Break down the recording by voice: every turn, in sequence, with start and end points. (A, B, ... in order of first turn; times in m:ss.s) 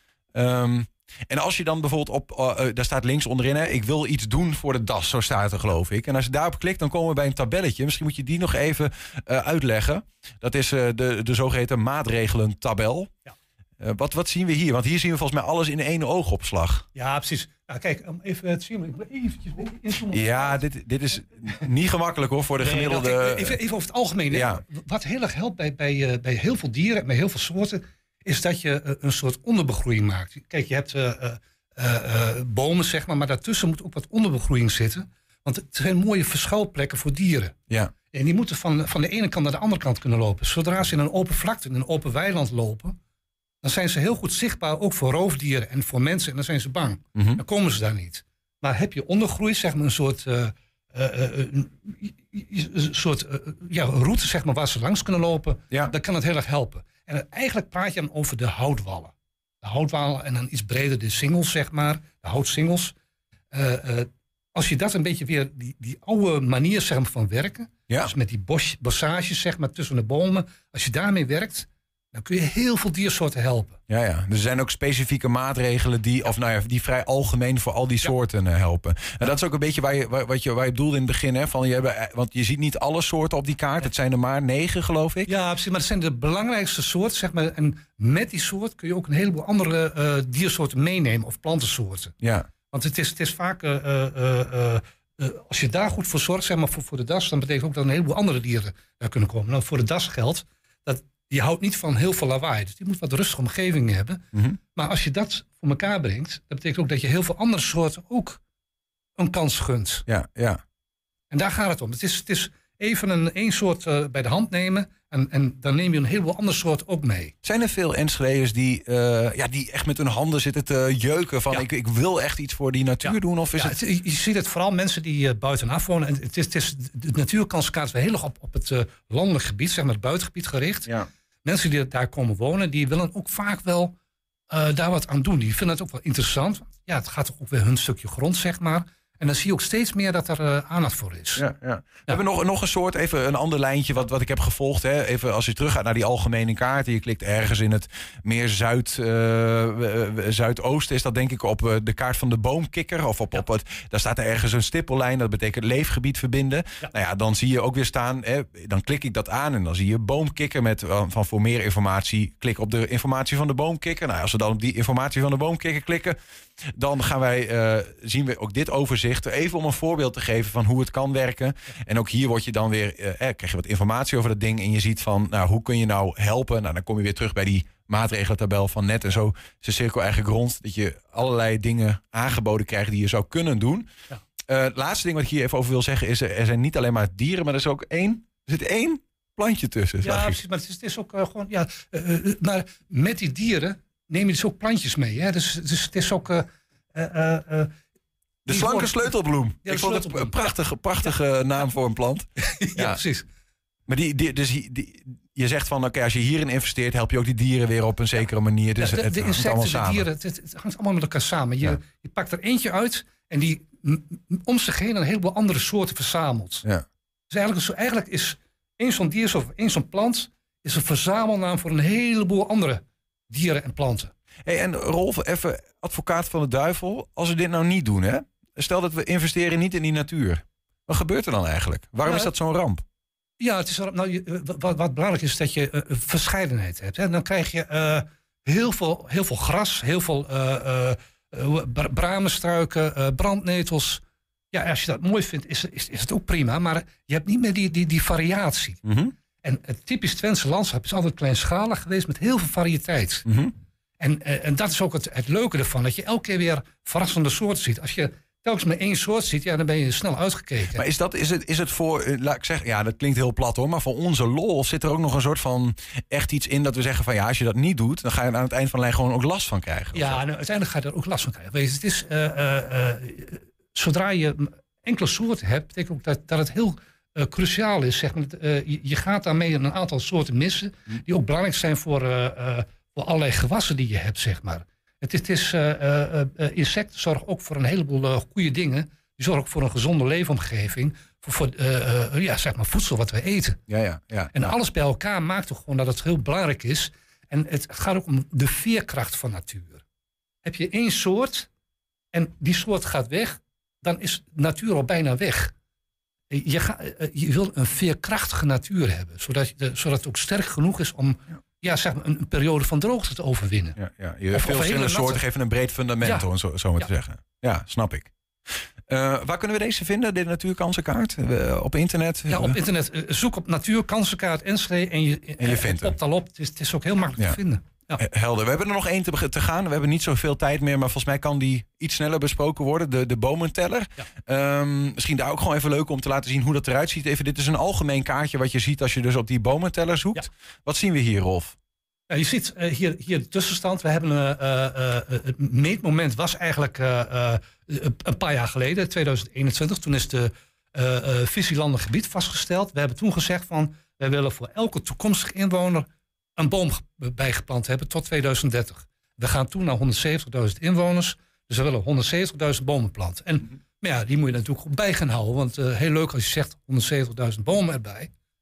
0:00.3-0:13.1 A
0:13.8-0:16.8 A
0:16.9-0:20.6 B
0:20.1-0:23.6 A
0:22.6-0:37.6 B
0:24.3-0:24.6 A
0:38.1-0:43.0 B
0:43.6-1:02.9 B
0:47.1-0:47.4 A
1:03.5-1:13.8 B
1:13.9-1:25.3 A
1:25.2-1:32.1 B
1:32.2-1:32.5 A
1:32.7-1:44.2 B
1:44.7-1:48.4 B
1:49.2-1:50.0 B
1:50.1-1:50.6 A
1:51.3-1:57.3 B
1:57.4-2:03.8 A
2:03.0-2:10.9 B
2:11.4-2:13.9 B
2:14.5-2:21.4 B
2:21.4-3:03.9 A
3:04.5-3:10.4 A
3:10.0-3:17.7 B
3:18.4-3:23.0 A
3:18.5-3:20.4 B
3:22.5-3:23.2 B
3:23.9-3:30.1 A
3:28.8-3:36.6 B
3:37.3-3:44.1 B
3:44.4-3:52.8 A
3:52.0-3:52.3 B
3:53.4-4:08.8 B
4:08.8-4:09.1 A
4:09.4-4:13.2 B
4:13.2-4:13.5 A
4:14.0-4:20.8 B
4:20.7-4:30.2 A
4:29.9-4:53.6 B
4:53.7-4:54.5 A
4:54.3-4:59.8 B
5:00.4-5:01.5 B
5:02.1-5:05.5 B
5:06.3-5:13.8 B
5:13.8-5:18.1 A
5:14.3-5:15.2 B
5:18.9-5:22.6 A
5:22.3-5:28.0 B
5:25.4-5:26.0 A
5:28.0-5:41.5 A
5:42.1-5:55.9 B
5:56.4-6:08.1 B